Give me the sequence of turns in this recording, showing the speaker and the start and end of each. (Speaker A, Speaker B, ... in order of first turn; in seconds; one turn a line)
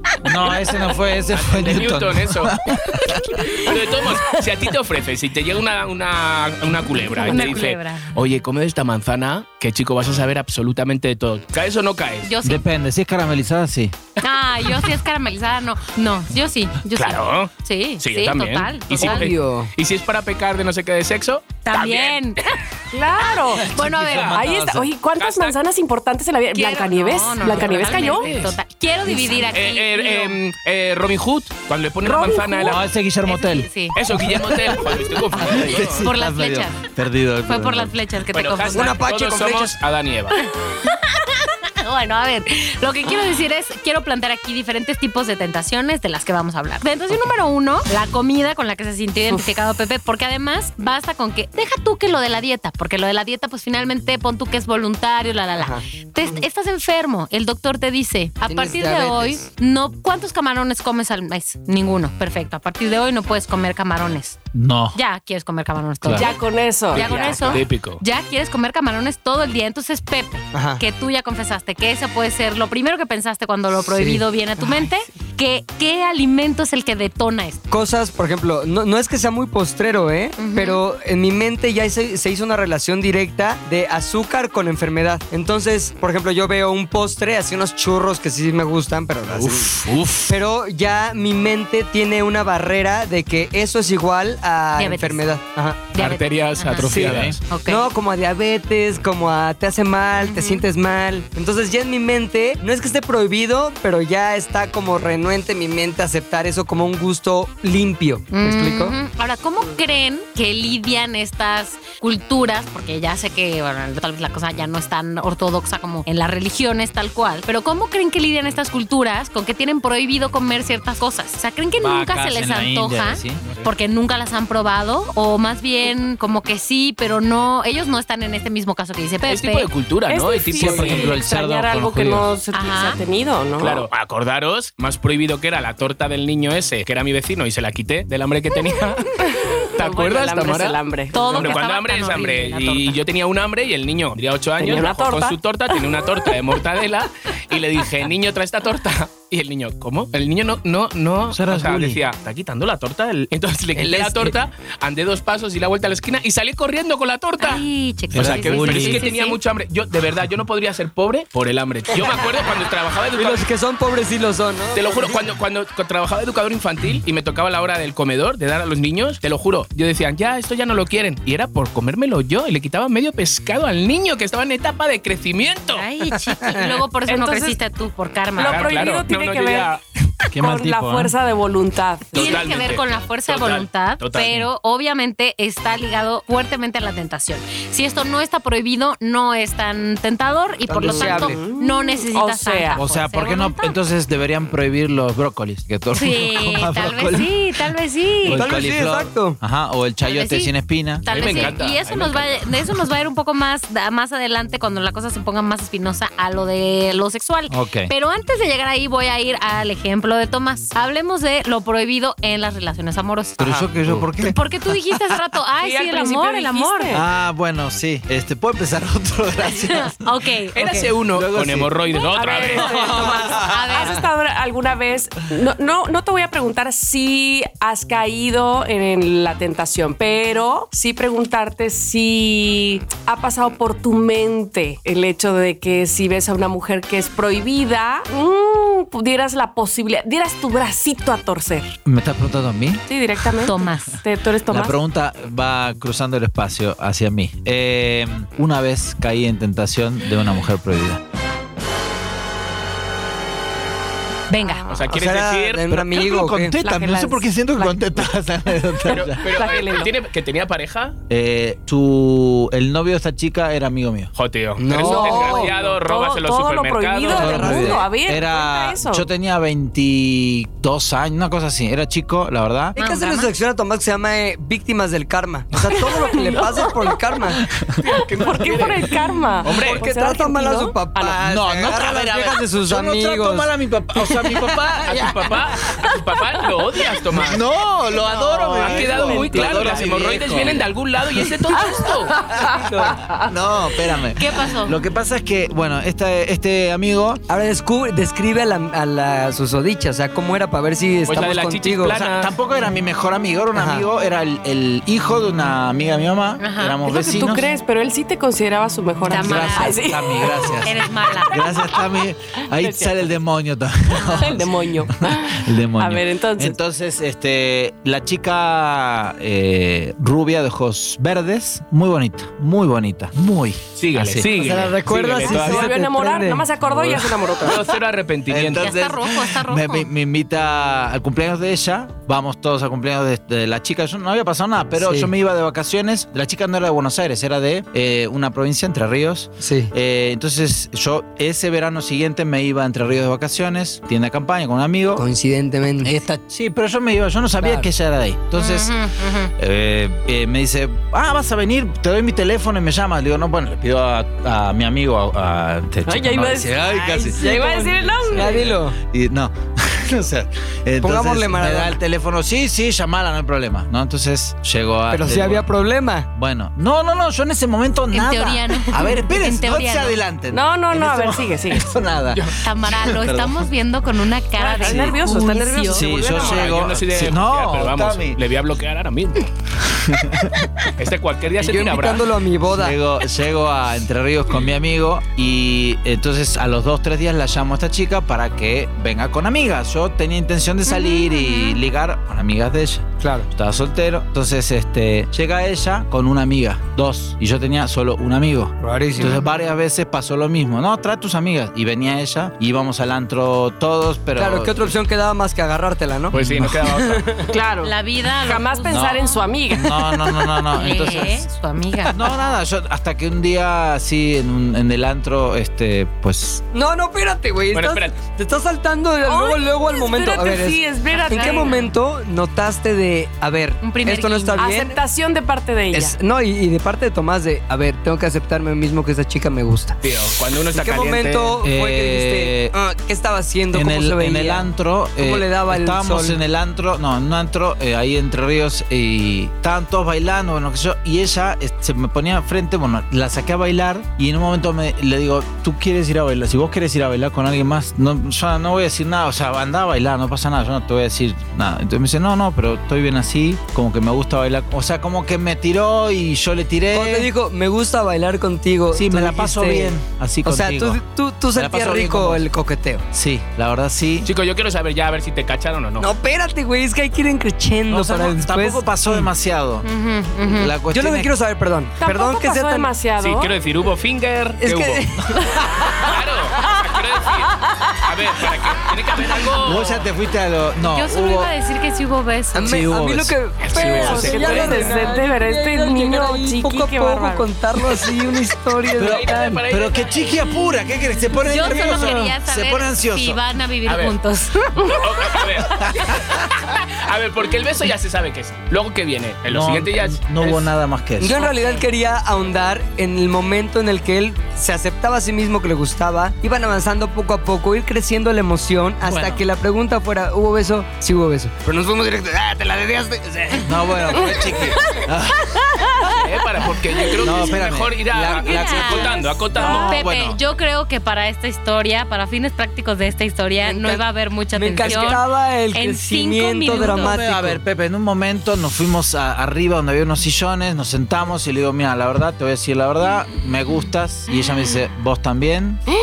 Speaker A: 0.2-3.6
Speaker B: 1.3-2.6
Speaker B: 3.4-12.3
Speaker C: 7.1-8.1
Speaker C: 12.2-12.6
Speaker A: 12.4-13.9
Speaker C: 14.2-19.3
Speaker B: 16.9-22.4
Speaker D: 18.9-19.7
Speaker C: 21.6-22.4
Speaker E: 22.9-23.7
Speaker C: 23.6-24.4
Speaker A: 23.7-24.9
Speaker E: 24.3-28.3
Speaker B: 25.2-25.6
Speaker C: 26.5-30.4
Speaker B: 27.4-32.8
Speaker E: 32.0-32.8
Speaker A: 32.6-38.0
Speaker C: 33.2-34.0
Speaker B: 33.9-36.1
Speaker C: 36.0-36.8
Speaker C: 37.5-39.1
Speaker B: 38.3-40.4
Speaker D: 38.7-39.8
Speaker C: 40.3-64.4
Speaker D: 58.5-59.4
Speaker A: 64.5-65.0
Speaker C: 64.9-77.6
Speaker E: 66.2-67.6
Speaker B: 66.9-68.0
Speaker D: 70.5-70.8
Speaker D: 73.8-74.9
Speaker D: 77.7-89.7
Speaker C: 80.4-80.8
Speaker B: 89.3-90.3
Speaker D: 90.3-95.9
Speaker C: 94.8-95.3
Speaker C: 95.9-97.9
Speaker B: 95.9-97.4
Speaker D: 96.8-97.2
Speaker A: 96.9-97.4
Speaker D: 97.7-109.0
Speaker C: 100.2-100.6
Speaker C: 108.3-129.7
Speaker A: 121.8-123.4
Speaker B: 129.2-131.2
Speaker E: 130.1-133.9
Speaker A: 130.6-132.3
Speaker C: 132.5-133.0
Speaker B: 133.6-163.5
Speaker E: 139.2-141.6
Speaker C: 141.1-143.0
Speaker E: 144.6-145.4
Speaker A: 151.3-152.0
Speaker D: 153.8-154.4
Speaker C: 157.4-159.4
Speaker A: 158.1-159.0
Speaker D: 163.1-165.2
Speaker B: 164.7-175.9
Speaker C: 175.7-178.8
Speaker D: 176.3-176.7
Speaker E: 177.1-177.6
Speaker E: 178.4-179.8
Speaker B: 178.4-179.8
Speaker E: 180.3-182.4
Speaker A: 180.3-181.1
Speaker B: 182.1-184.4
Speaker C: 182.1-193.8
Speaker D: 190.7-191.4
Speaker E: 190.9-192.8
Speaker A: 192.8-197.4
Speaker C: 195.9-198.4
Speaker A: 198.2-201.6
Speaker D: 198.2-199.4
Speaker C: 200.0-217.0
Speaker B: 201.1-202.5
Speaker A: 207.5-207.9
Speaker A: 213.4-214.4
Speaker E: 215.6-217.0
Speaker A: 216.9-220.2
Speaker C: 219.7-220.9
Speaker B: 220.5-223.0
Speaker A: 221.1-221.8
Speaker E: 222.0-241.7
Speaker A: 222.5-223.7
Speaker C: 223.4-224.0
Speaker A: 241.8-243.2
Speaker E: 242.9-244.8
Speaker C: 243.4-244.0
Speaker A: 244.5-251.0
Speaker C: 254.3-254.8
Speaker B: 254.7-255.9
Speaker D: 254.8-256.6
Speaker A: 255.8-259.3
Speaker E: 256.6-257.8
Speaker B: 258.9-261.0
Speaker E: 259.2-259.9
Speaker A: 261.1-264.1
Speaker B: 264.1-267.7
Speaker D: 264.6-265.6
Speaker E: 264.8-269.1
Speaker D: 267.1-267.8
Speaker A: 267.1-272.8
Speaker C: 272.8-273.3
Speaker D: 272.8-277.4
Speaker E: 275.8-277.0
Speaker A: 277.5-277.8
Speaker E: 277.7-281.2
Speaker B: 277.8-279.8
Speaker D: 279.4-283.5
Speaker A: 281.2-285.0
Speaker D: 284.2-285.8
Speaker B: 284.8-287.4
Speaker A: 287.1-290.7
Speaker D: 288.0-290.4
Speaker B: 288.5-292.1
Speaker D: 291.5-293.1
Speaker A: 293.1-297.2
Speaker C: 294.1-294.8
Speaker D: 297.3-301.9
Speaker B: 301.1-302.3
Speaker A: 301.9-307.4
Speaker D: 303.5-303.8
Speaker C: 306.4-306.8
Speaker E: 306.8-310.6
Speaker C: 309.0-311.5
Speaker A: 309.1-324.3
Speaker E: 311.3-311.9
Speaker E: 312.4-313.0
Speaker C: 313.9-314.3
Speaker E: 314.1-316.6
Speaker B: 323.8-325.8
Speaker D: 324.3-327.5
Speaker E: 325.2-327.7
Speaker B: 327.4-328.7
Speaker A: 328.3-345.0
Speaker C: 328.6-329.9
Speaker D: 334.8-335.1
Speaker D: 339.4-339.7
Speaker D: 344.9-345.9
Speaker A: 345.8-348.7
Speaker D: 347.4-347.7
Speaker C: 348.3-349.3
Speaker A: 349.4-357.2
Speaker E: 355.9-358.6
Speaker D: 356.6-358.8
Speaker A: 358.1-365.4
Speaker D: 360.8-361.8
Speaker D: 364.9-366.1
Speaker A: 366.1-373.5
Speaker C: 367.9-370.0
Speaker E: 370.3-371.6
Speaker C: 372.4-376.1
Speaker E: 374.4-376.4
Speaker A: 374.6-375.0
Speaker A: 375.7-378.2
Speaker B: 376.0-379.3
Speaker A: 379.6-380.5
Speaker B: 380.8-382.1
Speaker D: 381.4-382.7
Speaker A: 382.5-404.7
Speaker C: 390.7-391.6
Speaker D: 393.0-393.3
Speaker D: 398.6-399.2
Speaker C: 399.0-399.2
Speaker D: 404.1-407.3
Speaker B: 406.1-407.2
Speaker A: 406.1-406.6
Speaker E: 407.3-410.1
Speaker C: 407.6-409.2
Speaker A: 408.7-411.2
Speaker C: 410.4-412.1
Speaker A: 411.9-416.4
Speaker D: 416.5-424.8
Speaker B: 417.5-417.9
Speaker E: 419.0-421.7
Speaker C: 420.9-421.6
Speaker C: 423.6-424.5
Speaker E: 424.4-425.9
Speaker D: 425.7-429.8
Speaker B: 429.8-431.4
Speaker D: 430.5-436.2
Speaker A: 431.4-432.5
Speaker A: 433.5-457.1
Speaker D: 456.7-462.8
Speaker A: 458.7-460.8
Speaker A: 461.3-462.2
Speaker A: 462.9-464.1
Speaker B: 464.0-465.9
Speaker D: 465.8-469.1
Speaker A: 467.7-469.6
Speaker C: 469.6-470.5
Speaker A: 470.2-471.1
Speaker D: 470.7-472.7
Speaker E: 471.8-473.3
Speaker B: 473.0-474.9
Speaker D: 474.4-476.5
Speaker A: 475.1-475.4
Speaker B: 475.8-479.6
Speaker A: 479.4-481.3
Speaker C: 480.7-482.5
Speaker D: 482.3-489.4
Speaker A: 482.4-483.1
Speaker B: 483.4-484.9
Speaker E: 483.7-487.3
Speaker B: 488.7-490.2
Speaker A: 488.7-493.2
Speaker C: 491.2-495.2
Speaker D: 491.4-492.1
Speaker B: 493.6-493.9
Speaker B: 494.6-500.5
Speaker A: 495.6-496.2
Speaker A: 499.3-501.1
Speaker D: 501.0-514.6
Speaker C: 501.1-501.7
Speaker A: 508.8-509.2
Speaker A: 513.3-515.8
Speaker E: 514.5-514.8
Speaker D: 515.5-516.1
Speaker B: 515.9-519.8
Speaker A: 517.0-520.2
Speaker C: 518.0-527.0
Speaker D: 523.4-523.8
Speaker D: 524.4-527.4
Speaker A: 524.6-525.0
Speaker A: 526.5-535.6